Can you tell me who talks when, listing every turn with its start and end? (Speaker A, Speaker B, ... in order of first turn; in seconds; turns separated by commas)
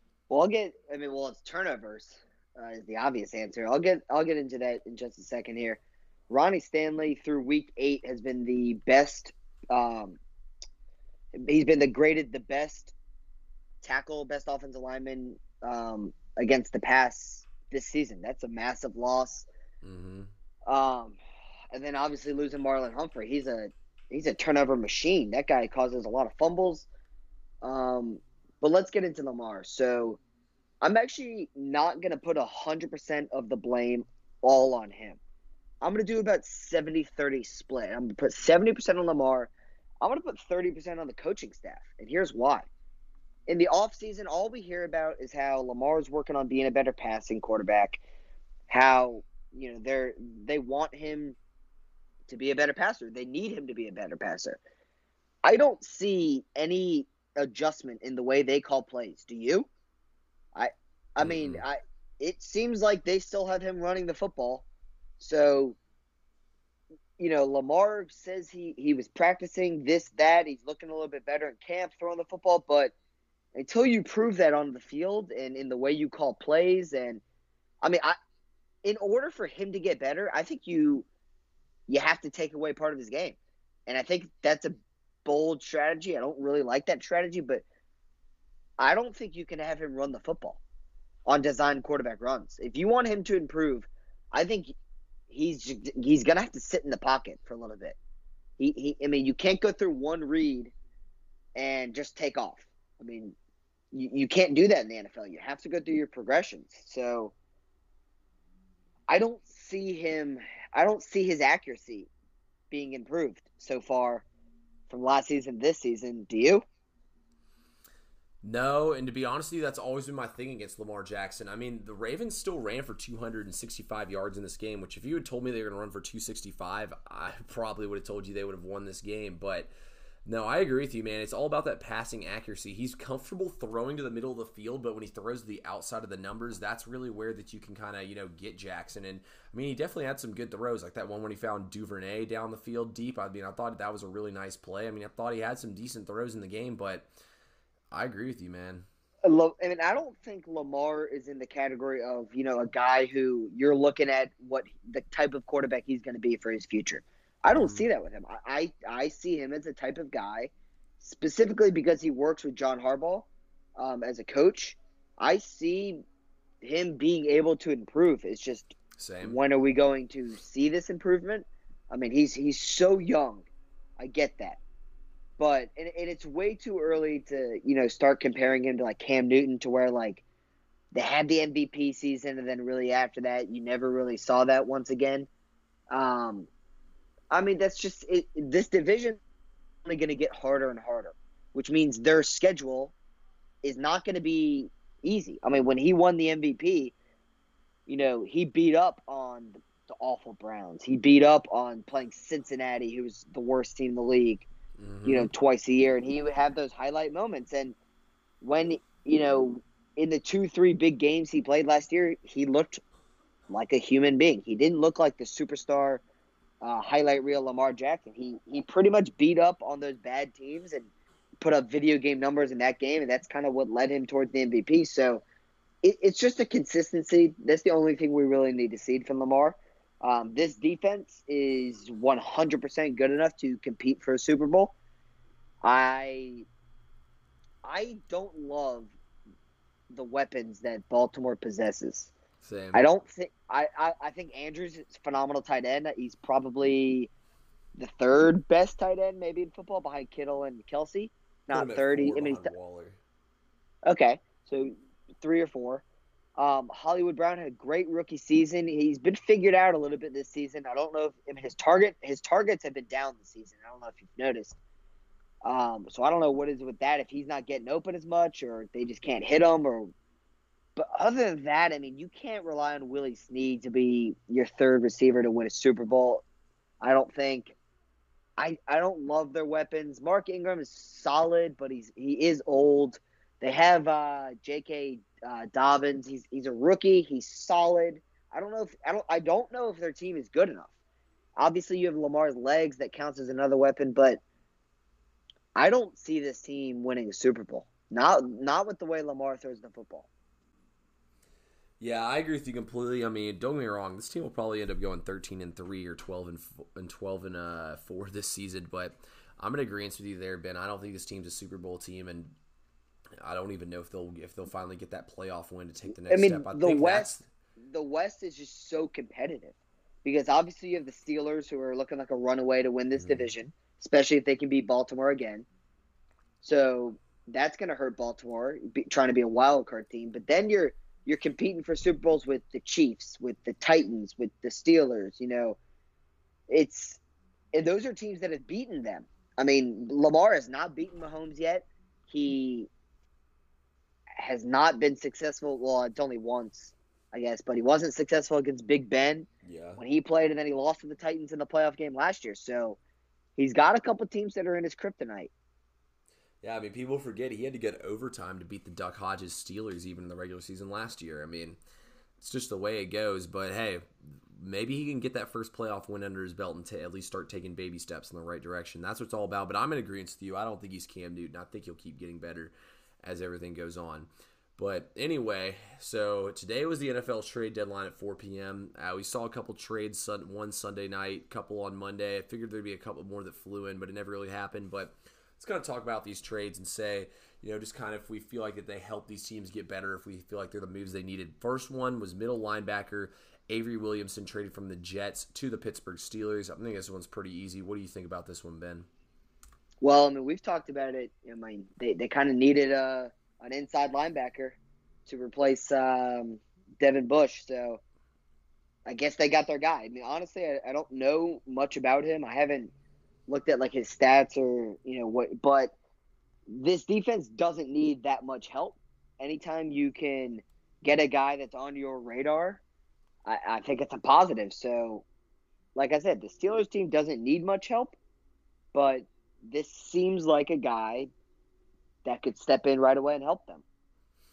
Speaker A: 0.3-10.2, Speaker A: 11.4-12.9, Speaker A: 13.8-19.5, Speaker B: 19.8-20.3, Speaker A: 20.7-21.2, Speaker A: 21.7-26.9, Speaker A: 27.6-30.2, Speaker A: 30.8-35.2, Speaker A: 35.8-42.7, Speaker A: 43.5-48.0, Speaker A: 48.7-51.4, Speaker A: 52.3-54.6, Speaker A: 55.4-59.7, Speaker A: 60.5-64.7, Speaker B: 61.2-61.6, Speaker A: 65.2-65.8, Speaker A: 67.2-72.9, Speaker A: 73.5-77.2, Speaker A: 77.8-78.2, Speaker A: 78.8-81.1, Speaker A: 81.9-87.6, Speaker A: 88.8-90.6, Speaker A: 91.3-94.7, Speaker A: 95.3-98.0, Speaker A: 98.6-100.7, Speaker A: 101.6-103.4, Speaker A: 103.9-107.3, Speaker A: 109.1-112.1, Speaker A: 112.7-114.2, Speaker A: 114.9-116.6, Speaker B: 118.4-129.7, Speaker B: 130.3-147.1, Speaker B: 147.9-148.8, Speaker A: 149.3-166.0, Speaker B: 157.5-157.9, Speaker A: 166.6-173.5, Speaker B: 169.0-169.4, Speaker A: 174.0-174.6, Speaker A: 175.4-180.2, Speaker A: 180.9-185.3, Speaker A: 185.9-186.5, Speaker A: 187.3-189.2, Speaker A: 189.9-192.9, Speaker A: 193.6-196.9, Speaker A: 197.9-204.5, Speaker B: 204.8-205.3, Speaker A: 205.1-207.8, Speaker A: 208.4-212.8, Speaker A: 213.5-216.0, Speaker A: 216.6-220.9, Speaker A: 221.4-225.2, Speaker A: 225.8-234.7, Speaker A: 235.6-236.5, Speaker A: 237.7-238.9, Speaker A: 239.9-242.1, Speaker B: 242.4-242.9, Speaker A: 242.7-247.1, Speaker A: 247.8-252.5, Speaker B: 251.5-253.0, Speaker A: 253.9-255.8, Speaker A: 256.4-264.6, Speaker A: 265.4-269.9, Speaker A: 270.8-276.2, Speaker A: 276.8-277.6, Speaker A: 278.4-290.7, Speaker A: 291.4-294.2, Speaker A: 295.6-300.1, Speaker B: 301.8-312.4, Speaker B: 313.2-317.3, Speaker A: 316.1-325.5, Speaker B: 323.0-323.3, Speaker A: 326.4-335.6, Speaker A: 336.5-337.0, Speaker A: 337.5-342.7, Speaker A: 344.2-352.8, Speaker B: 349.4-349.8, Speaker A: 353.4-355.3, Speaker B: 356.4-361.6, Speaker B: 362.2-398.9, Speaker A: 399.8-407.8, Speaker A: 408.9-412.7, Speaker A: 413.3-415.7, Speaker A: 416.5-422.6, Speaker A: 423.3-425.1, Speaker A: 425.8-428.0, Speaker A: 428.7-431.1, Speaker A: 432.1-433.6